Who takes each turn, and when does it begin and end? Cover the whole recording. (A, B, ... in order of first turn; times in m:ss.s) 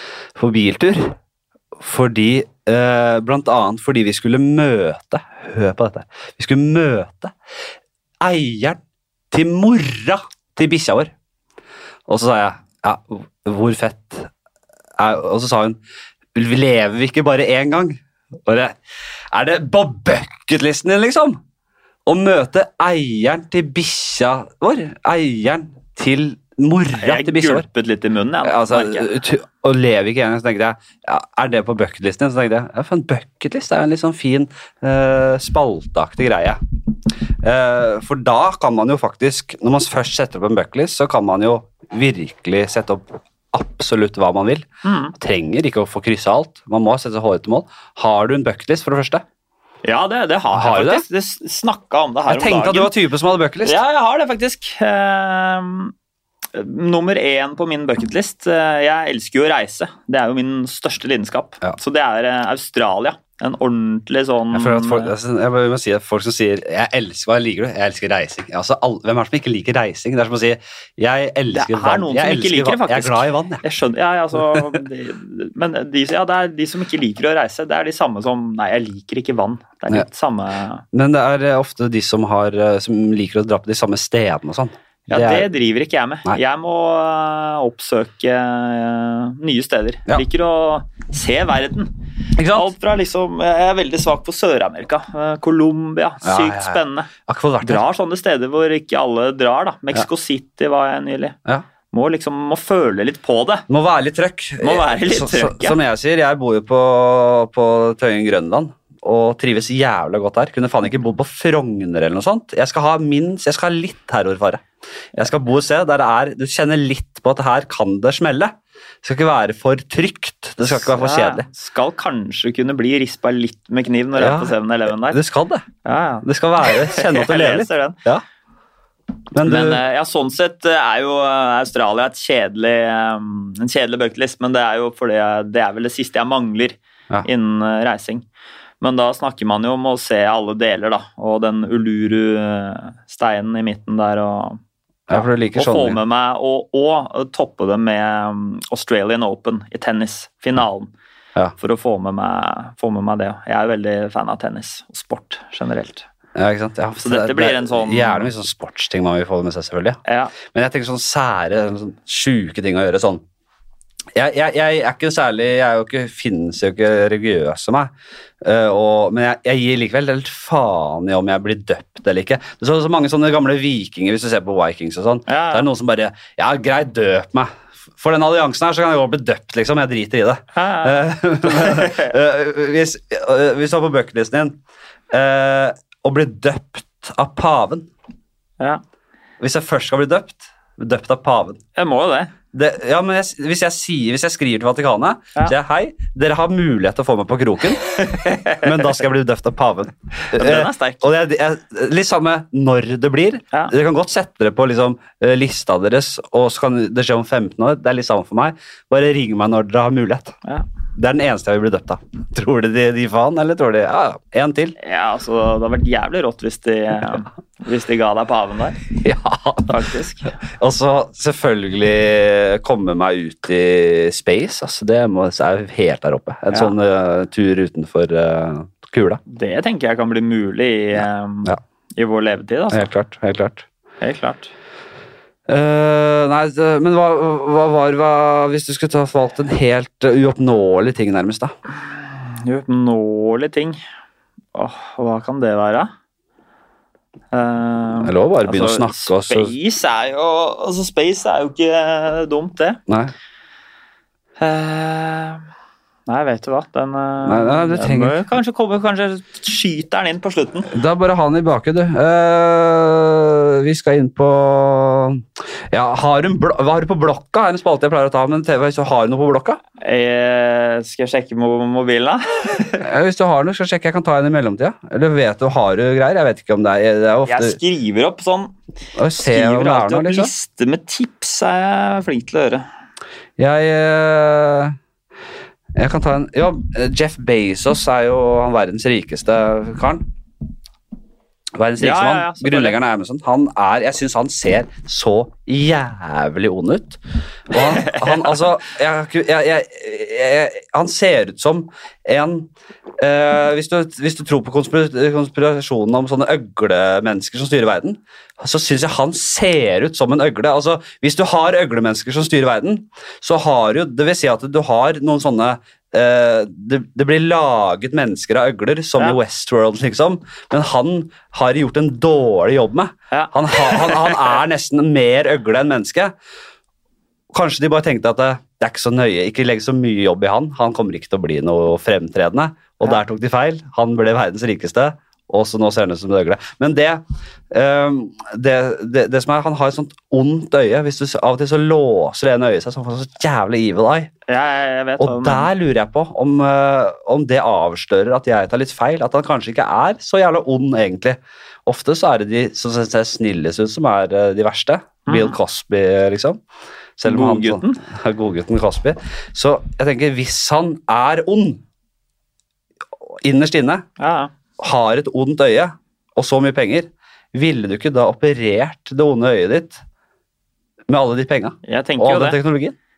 0:00.4-0:01.2 A
0:01.8-0:07.3 A
0:08.2-0:08.8 A
0:09.3-0:11.1 A
0:12.1-0:14.3 A
0:15.0-0:15.8 A
0:16.4-0:18.8 A
0:19.3-0:21.4 A
0:22.1-0:27.7 A
0:27.0-0:29.1 B
0:28.4-0:36.6 A
0:37.4-0:49.2 A
0:44.8-0:45.1 B
0:49.8-0:52.9 B
0:50.5-0:51.0 A
0:52.3-0:53.8 A
0:53.6-0:55.9 B
0:56.5-1:05.1 B
1:04.5-1:13.6 A
1:11.5-1:20.8 B
1:14.4-1:14.8 A
1:20.9-1:25.5 A
1:25.1-1:31.9 B
1:32.4-1:32.7 A
1:32.5-1:41.4 B
1:36.2-1:37.8 A
1:41.9-1:43.7 B
1:43.7-2:01.5 A
1:44.6-1:45.8 B
2:00.7-2:05.2 B
2:04.2-2:05.7 A
2:05.8-2:08.0 B
2:06.2-2:08.2 A
2:09.3-2:09.8 A
2:09.4-2:18.2 B
2:18.8-2:24.6 B
2:25.1-2:26.0 A
2:25.1-2:30.9 B
2:31.6-2:36.1 B
2:36.4-2:43.2 A
2:37.0-2:38.3 B
2:40.0-2:40.3 B
2:44.2-3:04.6 A
2:55.3-2:55.7 B
3:00.5-3:02.1 B
3:05.1-3:07.9 A
3:09.4-3:11.6 A
3:11.8-3:12.3 B
3:12.5-3:18.0 A
3:17.8-3:18.9 B
3:18.6-3:30.4 A
3:20.2-3:21.0 B
3:31.0-3:34.8 A
3:34.8-3:38.8 B
3:38.9-3:39.8 A
3:39.7-3:40.3 B
3:40.4-3:49.2 A
3:49.3-3:52.9 B
3:52.7-3:53.7 A
3:54.0-3:54.5 B
3:55.5-4:01.5 A
4:01.9-4:03.8 B
4:04.5-4:05.9 B
4:07.3-4:12.8 B
4:08.0-4:09.5 A
4:12.9-4:13.1 A
4:14.4-4:15.4 B
4:16.1-4:20.7 B
4:17.2-4:18.2 A
4:20.7-4:29.6 A
4:29.8-4:32.9 B
4:32.8-4:37.6 A
4:37.3-4:38.5 B
4:39.0-4:40.3 A
4:39.2-4:42.7 B
4:43.4-4:44.8 A
4:45.7-4:50.1 A
4:51.6-5:26.1 A
4:51.8-4:52.8 B
4:57.6-4:58.4 B
5:23.1-5:24.4 B
5:27.3-5:44.1 A
5:44.3-5:45.5 B
5:45.0-5:56.4 A
5:55.1-5:55.4 B
5:57.0-6:01.6 A
5:57.1-5:57.8 B
6:03.0-6:03.8 A
6:04.0-6:04.3 B
6:04.6-6:09.8 A
6:10.9-6:12.8 A
6:11.7-6:12.4 B